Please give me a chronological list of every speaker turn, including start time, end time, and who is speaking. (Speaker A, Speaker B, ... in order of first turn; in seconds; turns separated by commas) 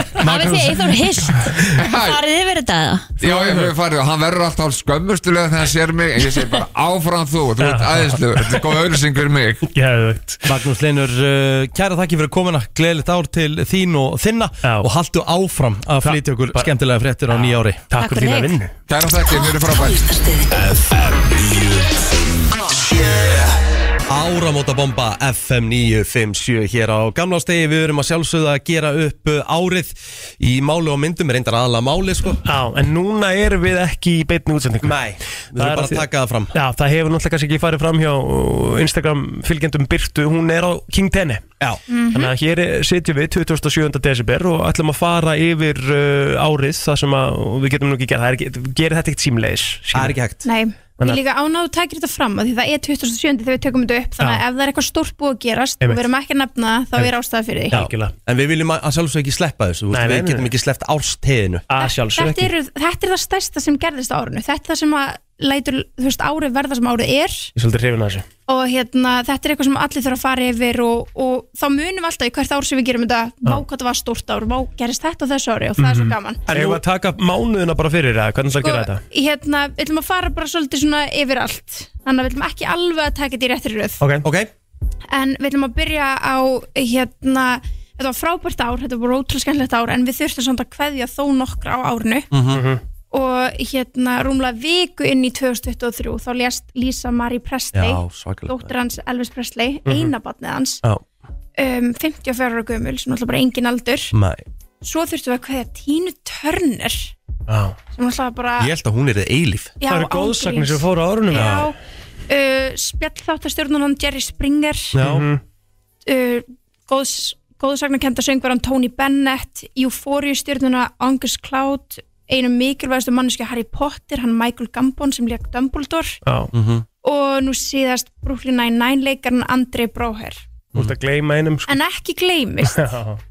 Speaker A: 0.2-3.1, Speaker B: 1.7-2.2, Speaker B: 3.2-9.6, Speaker C: 3.2-3.7, Speaker C: 7.6-8.7, Speaker C: 9.7-10.5, Speaker D: 10.4-17.8, Speaker C: 14.6-14.9, Speaker C: 16.0-16.7, Speaker C: 17.3-18.7, Speaker A: 18.0-18.5, Speaker B: 18.9-20.1, Speaker D: 24.1-32.4, Speaker C: 32.4-35.0, Speaker D: 34.8-36.5, Speaker C: 35.5-41.4, Speaker E: 41.9-42.3, Speaker C: 42.1-50.2, Speaker D: 49.9-50.4, Speaker E: 50.4-57.8, Speaker C: 54.2-54.4, Speaker C: 55.8-56.0, Speaker C: 57.7-58.1, Speaker D: 57.7-61.6, Speaker C: 59.9-60.5, Speaker C: 61.7-62.5, Speaker E: 61.8-67.5, Speaker C: 67.5-68.2, Speaker E: 68.5-76.5, Speaker C: 75.8-79.0, Speaker E: 78.6-84.0, Speaker C: 84.0-84.2, Speaker D: 84.2-84.5, Speaker E: 85.1-92.3, Speaker D: 92.3-92.6, Speaker C: 92.5-92.8, Speaker E: 93.1-100.8, Speaker D: 97.7-98.7, Speaker C: 99.8-100.1, Speaker E: 101.6-104.1, Speaker D: 104.1-104.4, Speaker E: 104.8-107.1, Speaker C: 107.5-107.8, Speaker E: 107.9-108.7, Speaker D: 108.6-109.7, Speaker E: 109.8-111.7, Speaker C: 109.8-111.7, Speaker D: 111.3-111.7, Speaker E: 112.3-114.9, Speaker D: 114.9-115.3, Speaker C: 115.0-115.4, Speaker E: 116.0-126.2, Speaker C: 126.2-126.5, Speaker D: 126.5-126.8, Speaker E: 127.0-130.4, Speaker C: 130.7-131.8, Speaker E: 131.7-132.9, Speaker C: 132.6-133.2